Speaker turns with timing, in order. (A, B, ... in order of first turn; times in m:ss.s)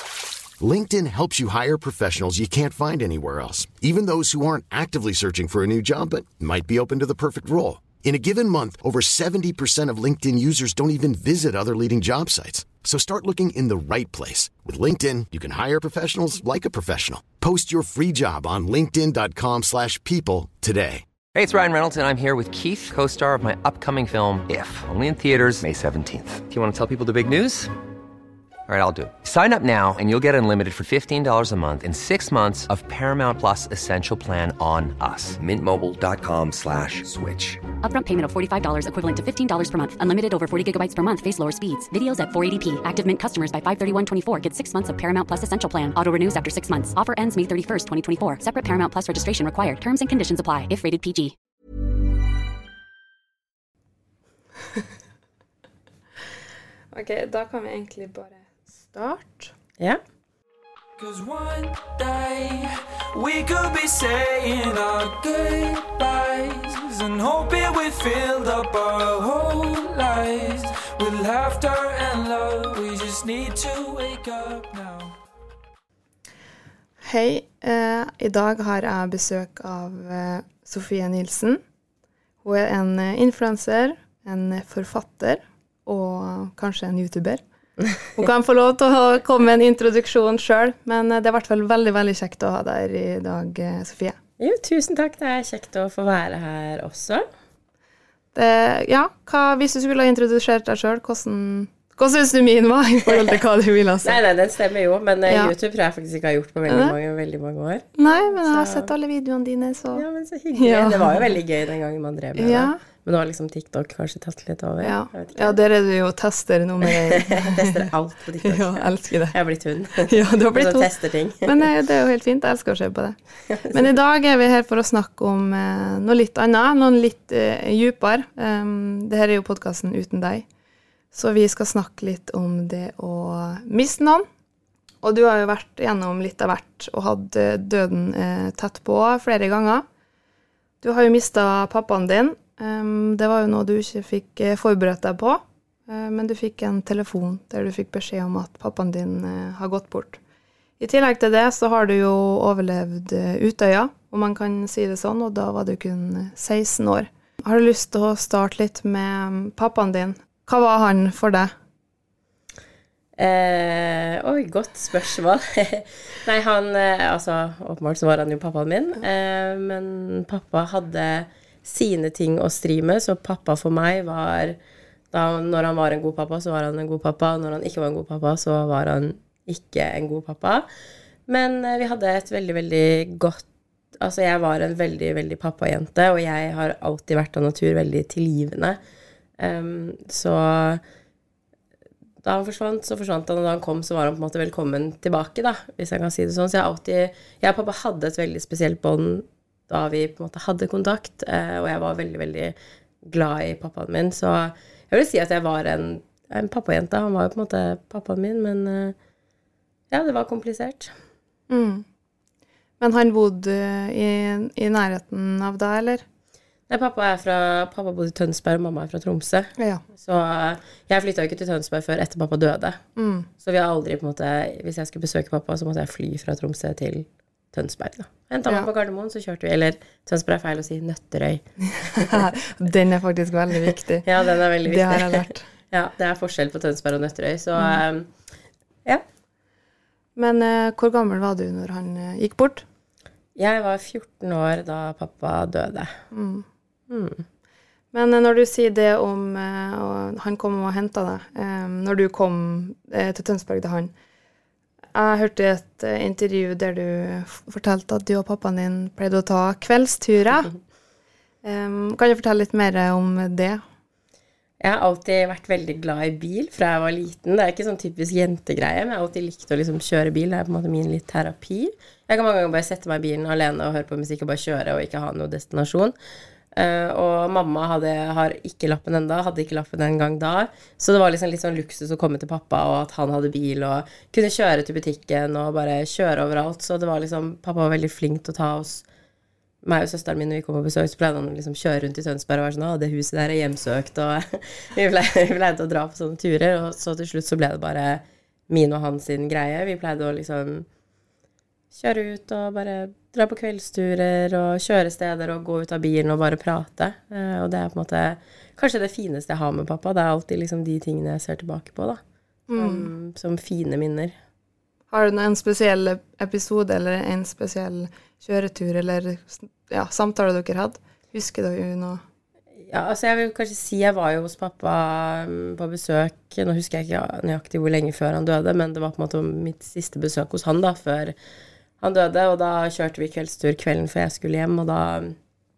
0:00.6-0:21.0 A
0:21.3-0:27.7 B
0:28.7-0:37.6 B
0:37.8-0:51.3 C
0:56.9-0:59.5 D
1:01.0-1:15.2 E
1:17.0-1:21.6 D
1:22.4-1:27.4 D
1:28.1-1:34.2 D
1:34.4-1:37.2 F
1:38.3-1:44.2 D
1:43.0-1:43.4 F
1:44.0-1:48.9 F
1:45.2-1:45.5 D
1:46.7-1:47.0 D
1:48.0-1:50.0 D
1:49.9-1:55.6 F
1:50.6-1:51.3 D
1:52.4-1:52.8 D
1:54.8-1:57.9 D
1:57.1-2:01.6 F
1:58.4-1:59.4 D
2:00.0-2:03.2 D
2:03.5-2:03.9 F
2:03.7-2:10.4 D
2:11.1-2:14.2 D
2:15.0-2:19.8 D
2:20.8-2:30.2 D
2:30.8-2:41.5 D
2:43.2-2:54.6 F
2:55.1-3:00.6 F
3:01.3-3:03.4 F
3:04.0-3:08.8 F
3:09.4-3:10.8 F
3:12.2-3:29.0 F
3:29.9-3:30.9 F
3:31.5-3:31.8 D
3:32.8-3:36.0 D
3:36.7-3:42.8 F
3:39.6-3:39.8 D
3:43.0-3:43.3 D
3:43.4-3:52.3 F
3:51.9-3:54.1 D
3:54.0-3:58.1 F
3:54.6-3:55.4 D
4:00.2-4:02.6 D
4:03.4-4:05.9 F
4:06.1-4:06.4 D
4:06.9-4:07.2 F
4:07.9-4:13.9 D
4:14.9-4:20.5 D
4:21.4-4:23.6 D
4:24.6-4:35.9 F
4:36.5-4:48.8 F
4:49.6-5:00.7 F
5:01.7-5:12.0 F
5:12.5-5:12.9 D
5:12.5-5:14.1 F
5:14.9-5:22.0 D
5:22.6-5:31.1 F
5:31.8-5:35.2 F